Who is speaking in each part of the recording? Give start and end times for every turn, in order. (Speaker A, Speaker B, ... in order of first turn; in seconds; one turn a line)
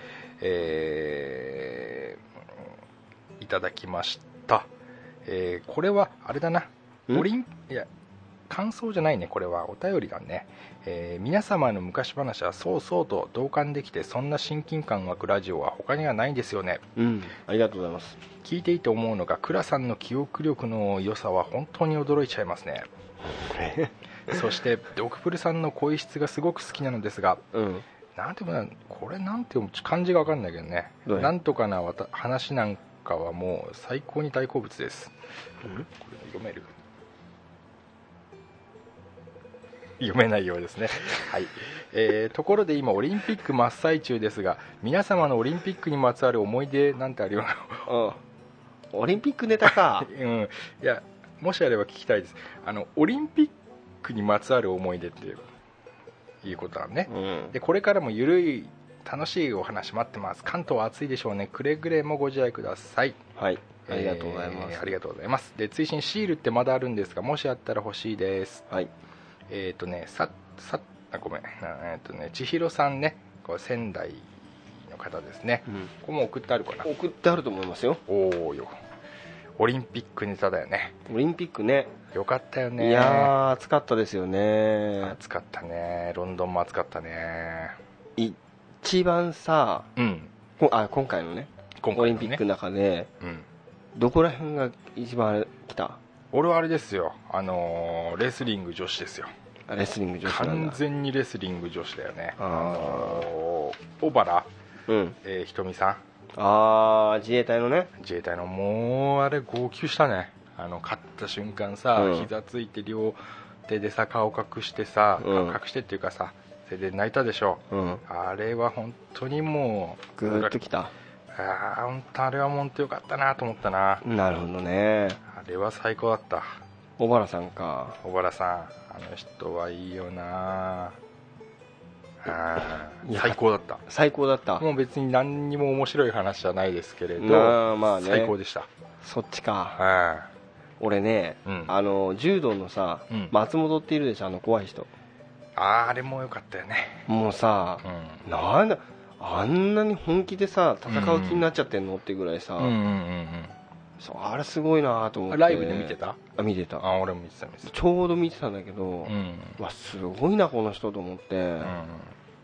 Speaker A: 0.4-2.2
Speaker A: 3.4-4.7
Speaker A: 5.2-7.9
Speaker A: 8.5-16.8
Speaker B: 17.0-18.2
Speaker A: 18.4-22.9
Speaker B: 23.2-24.4
Speaker A: 24.3-27.4
Speaker B: 27.5-27.9
Speaker A: 28.2-35.1
Speaker B: 31.1-31.3
Speaker A: 35.9-36.7
Speaker A: 40.0-47.9
Speaker B: 47.9-48.2
Speaker B: 48.9-50.1
Speaker A: 49.6-55.5
Speaker A: 56.4-63.2
Speaker B: 57.1-57.5
Speaker B: 63.4-65.0
Speaker A: 63.9-68.7
Speaker A: 69.5-76.9
Speaker B: 76.8-78.0
Speaker A: 78.1-78.8
Speaker A: 79.6-81.0
Speaker B: 81.1-81.9
Speaker A: 82.1-83.3
Speaker B: 82.8-85.2
Speaker A: 85.0-87.8
Speaker B: 88.2-89.9
Speaker A: 90.0-90.3
Speaker B: 90.6-93.1
Speaker A: 91.8-92.4
Speaker A: 93.2-93.5
Speaker B: 94.0-96.0
Speaker A: 96.3-99.3
Speaker B: 99.7-100.8
Speaker A: 100.2-104.5
Speaker B: 102.4-103.3
Speaker B: 104.9-105.2
Speaker A: 105.2-106.0
Speaker B: 106.4-107.9
Speaker A: 108.0-120.6
Speaker B: 112.0-112.3
Speaker B: 115.2-115.6
Speaker B: 117.7-118.0
Speaker B: 120.2-120.9
Speaker A: 121.3-124.0
Speaker B: 124.0-125.2
Speaker A: 125.3-126.6
Speaker B: 127.0-128.0
Speaker A: 128.0-131.0
Speaker A: 132.2-133.8
Speaker B: 133.0-134.7
Speaker A: 134.6-138.7
Speaker B: 137.2-138.3
Speaker B: 139.0-139.8
Speaker A: 139.8-140.3
Speaker B: 140.8-144.9
Speaker A: 141.4-141.7
Speaker A: 145.6-147.1
Speaker B: 147.1-152.8
Speaker A: 147.8-148.2
Speaker A: 150.9-151.5
Speaker A: 152.6-153.6
Speaker B: 154.0-156.9
Speaker A: 155.3-156.2
Speaker A: 156.8-157.7
Speaker B: 157.6-161.8
Speaker A: 159.1-159.6
Speaker A: 161.6-162.1